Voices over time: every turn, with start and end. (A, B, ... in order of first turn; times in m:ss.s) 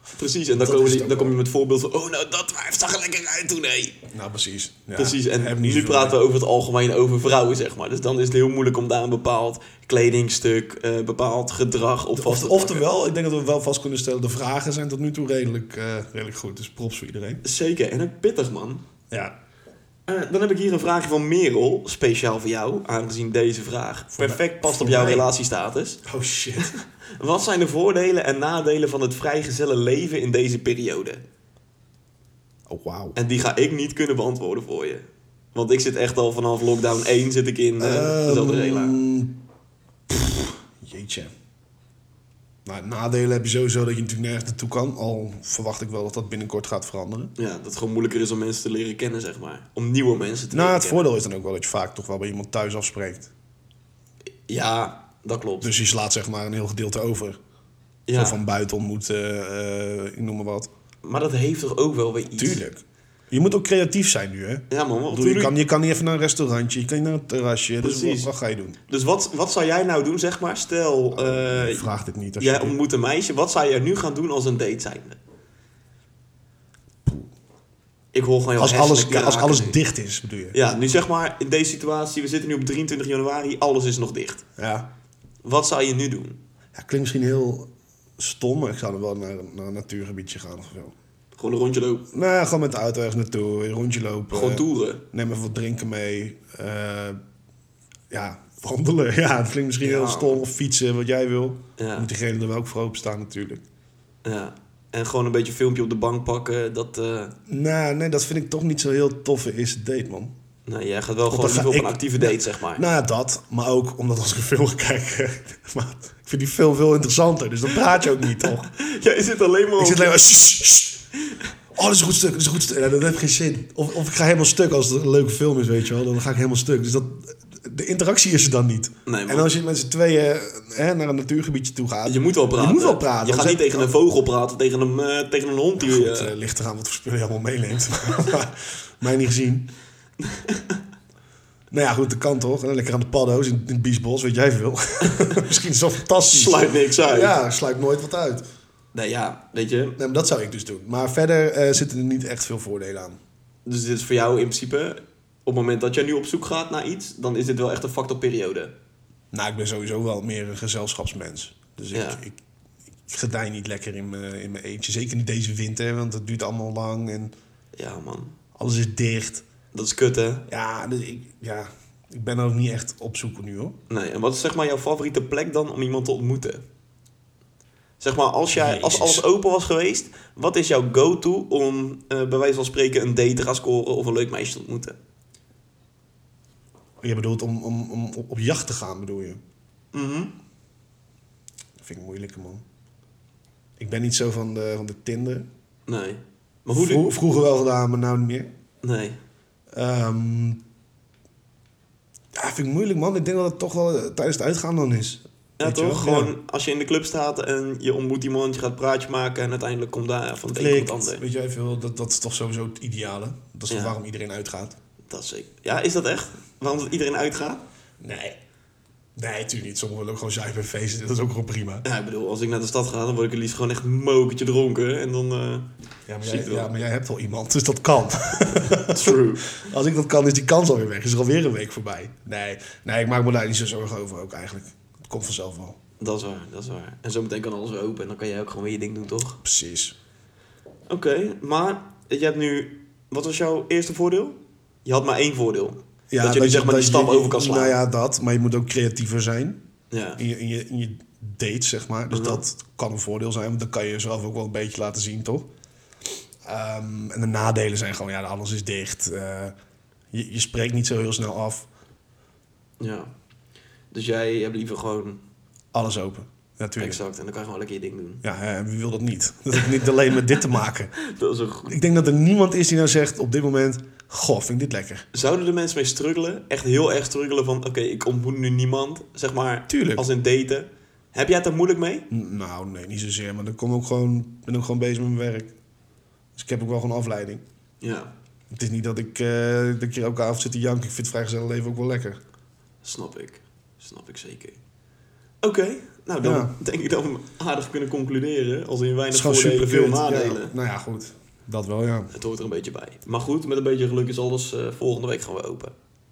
0:00.2-0:04.0 A
0:00.5-0:01.4 B
0:04.1-0:06.2 B
0:05.0-0:12.9 A
0:12.2-0:17.4 B
0:17.4-0:18.8 A
0:20.1-0:26.0 A
0:24.1-0:25.3 B
0:26.0-0:26.8 B
0:26.6-0:31.2 A
0:32.7-0:33.2 B
0:33.2-0:39.0 A
0:37.8-0:39.4 B
0:40.1-0:41.3 B
0:42.6-0:47.3 B
0:47.4-0:51.1 A
0:50.5-0:53.3 B
0:54.5-0:55.8 A
0:55.6-0:57.4 B
0:58.1-0:58.4 A
0:58.1-1:00.7 B
1:01.0-1:02.6 A
1:02.4-1:08.8 B
1:04.7-1:05.5 A
1:07.8-1:08.3 A
1:08.9-1:11.9 A
1:11.1-1:12.8 B
1:12.4-1:15.2 A
1:18.1-1:19.8 A
1:18.6-1:20.6 B
1:20.5-1:24.4 A
1:24.6-1:24.9 B
1:25.4-1:26.4 A
1:26.8-1:30.9 B
1:31.4-1:32.1 A
1:32.1-1:37.2 B
1:34.3-1:35.0 A
1:38.1-1:43.6 B
1:39.8-1:40.4 A
1:41.8-1:42.1 A
1:44.2-1:47.3 A
1:47.5-1:50.3 B
1:50.6-1:52.8 A
1:51.3-1:58.7 B
1:58.2-2:00.1 A
1:59.8-2:01.0 B
2:01.8-2:13.9 B
2:09.1-2:09.5 A
2:12.1-2:16.3 A
2:15.8-2:19.7 B
2:20.2-2:20.8 A
2:21.7-2:28.4 B
2:26.3-2:27.4 A
2:28.9-2:30.0 A
2:30.0-2:33.2 B
2:33.6-2:38.7 A
2:39.3-2:42.4 B
2:41.9-2:42.2 A
2:43.1-2:47.3 B
2:47.7-2:48.4 A
2:48.6-2:49.4 B
2:49.7-2:50.4 A
2:50.5-2:53.8 B
2:53.9-2:56.6 A
2:58.0-3:05.0 A
2:58.5-2:59.2 B
3:07.0-3:09.4 B
3:09.9-3:10.3 A
3:11.8-3:12.6 B
3:13.8-3:15.5 B
3:15.9-3:17.1 A
3:16.7-3:18.5 B
3:18.8-3:19.2 A
3:19.7-3:20.6 B
3:22.4-3:26.3 B
3:25.6-3:31.2 A
3:30.5-3:34.8 B
3:33.7-3:34.0 A
3:35.1-3:37.6 A
3:38.0-3:38.4 B
3:39.2-3:41.8 B
3:41.8-3:45.7 A
3:46.1-3:55.8 B
3:46.2-3:46.7 A
3:48.8-3:49.5 A
3:56.0-3:59.4 A
3:59.4-4:00.0 B
4:00.9-4:07.8 A
4:06.1-4:09.6 B
4:09.9-4:10.2 A
4:10.2-4:15.5 B
4:12.1-4:12.4 A
4:16.4-4:19.5 B
4:20.1-4:21.7 B
4:22.8-4:23.1 A
4:23.9-4:25.2 A
4:25.7-4:27.0 B
4:26.8-4:28.2 A
4:28.2-4:31.0 B
4:29.6-4:29.9 A
4:31.0-4:31.8 A
4:31.7-4:35.1 B
4:35.1-4:42.1 A
4:39.7-4:40.0 B
4:42.1-4:45.5 B
4:46.4-4:47.4 B
4:47.8-4:48.1 A
4:48.5-4:52.2 B
4:52.8-4:54.6 A
4:55.4-5:00.5 A
4:56.2-4:56.5 B
4:59.1-5:02.1 B
5:02.1-5:05.7 A